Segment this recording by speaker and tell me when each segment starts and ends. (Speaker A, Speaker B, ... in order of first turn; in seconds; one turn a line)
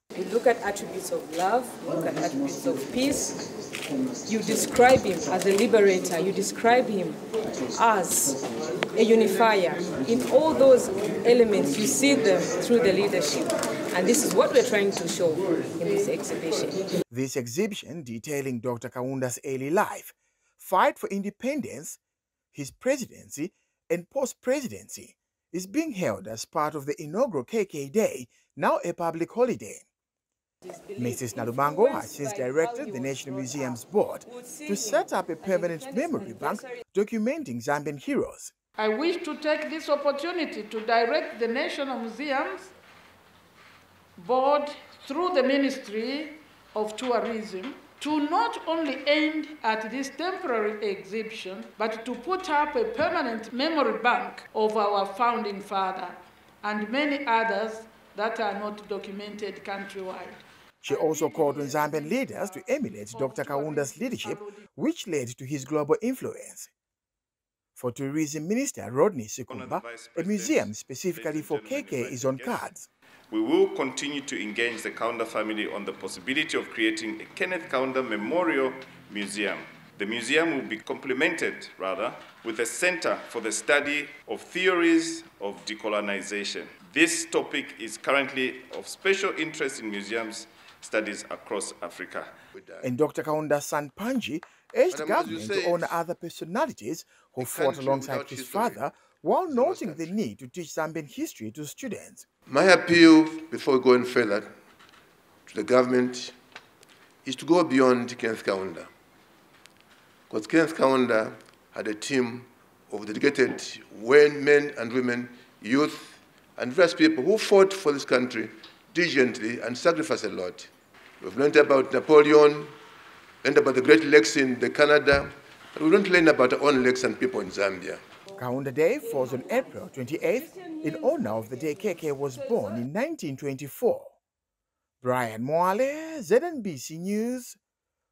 Speaker A: 0.1-3.4
Speaker A: 4.2-7.2
Speaker A: 7.7-8.4
Speaker A: 8.9-16.8
Speaker B: 17.1-22.0
Speaker B: 22.5-29.9
Speaker A: 30.6-36.8
Speaker B: 31.0-38.5
Speaker C: 38.8-42.7
Speaker C: 44.2-64.6
Speaker B: 60.8-66.7
Speaker B: 67.7-72.9
Speaker D: 69.5-72.6
Speaker D: 73.3-92.3
Speaker E: 92.5-92.9
Speaker B: 92.8-102.2
Speaker E: 94.9-96.0
Speaker E: 97.4-98.8
Speaker E: 99.5-100.1
Speaker E: 102.5-104.5
Speaker E: 105.5-106.3
Speaker E: 107.2-108.9
Speaker E: 110.3-120.7
Speaker E: 121.2-122.8
Speaker E: 123.4-128.0
Speaker B: 128.3-134.1
Speaker B: 135.0-137.6